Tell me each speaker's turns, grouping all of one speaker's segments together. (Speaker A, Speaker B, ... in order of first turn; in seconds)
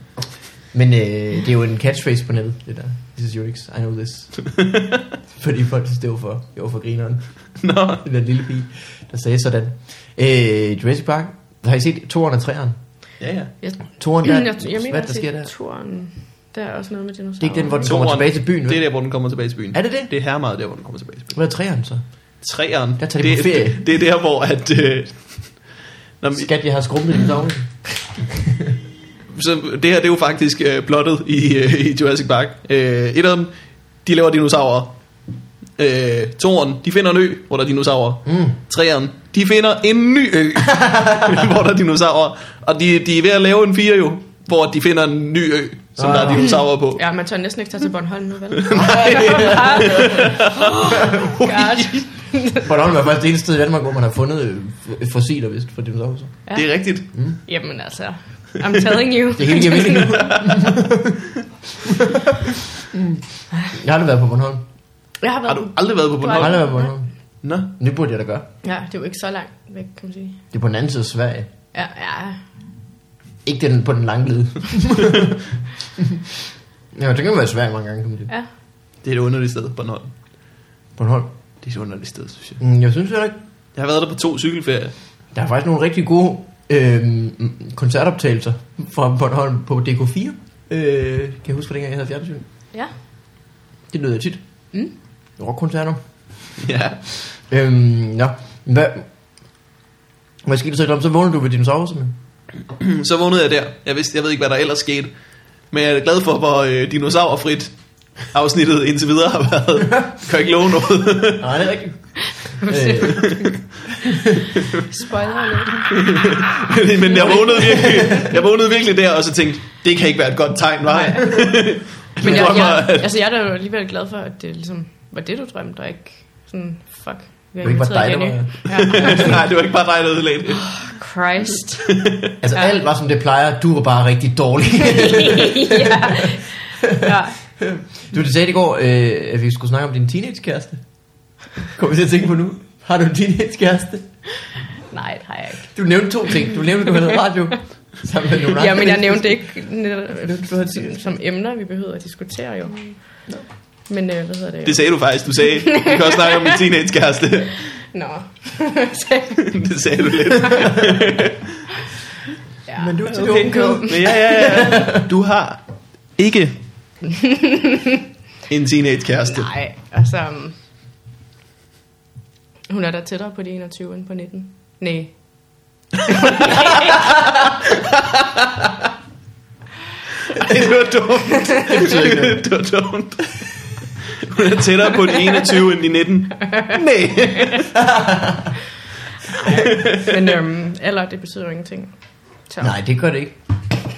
Speaker A: 0.7-4.5, 5.3-12.8, 14.0-15.5, 17.4-18.9, 19.7-20.1, 21.3-22.1, 23.0-23.8, 26.4-28.7, 38.3-38.5, 40.7-41.4, 46.0-46.5, 48.7-50.3, 52.6-56.5, 57.1-57.4, 59.4-61.2, 61.9-62.4, 62.9-64.7, 66.4-68.5, 70.5-71.5, 73.4-75.3, 76.9-78.3, 81.0-81.3, 82.6-83.3, 85.3-92.5, 93.9-94.4, 95.4-96.5, 97.5-99.1, 100.5-102.2, 111.4-114.5, 117.6-118.2, 127.6-129.4, 132.4-140.8, 141.6-144.1, 145.7-149.6, 150.2-151.0, 162.8-165.1, 181.7-182.4, 187.8-188.6, 192.6-193.3
Speaker B: 4.5-5.0, 7.6-8.0, 13.2-13.5, 17.8-21.4, 22.4-26.5, 29.3-35.0, 35.8-47.0, 48.7-52.0, 56.5-57.0, 60.1-60.5, 65.5-66.7, 67.4-67.7, 79.0-80.1, 81.6-82.6, 83.8-84.9, 96.6-97.3, 102.8-105.1, 105.7-111.5, 113.1-113.5, 116.0-123.1, 128.9-130.9, 131.9-132.3, 154.7-157.7, 159.5-161.4, 163.1-165.6, 166.2-166.6, 168.5-169.5, 176.9-177.1, 177.8-178.7, 180.3-187.8, 189.4-190.1
Speaker C: 13.6-18.0, 46.4-52.7, 56.5-60.5, 65.2-66.9, 68.6-70.4, 71.7-72.4, 112.2-113.6, 114.9-116.2, 117.0-118.3, 120.9-129.4, 130.7-131.9, 134.8-137.4, 144.9-145.7, 146.3-146.9, 148.5-153.2, 153.9-156.6, 157.9-159.6, 160.4-160.9, 162.7-164.6, 167.1-168.0, 169.3-170.6, 172.7-177.1, 189.3-192.7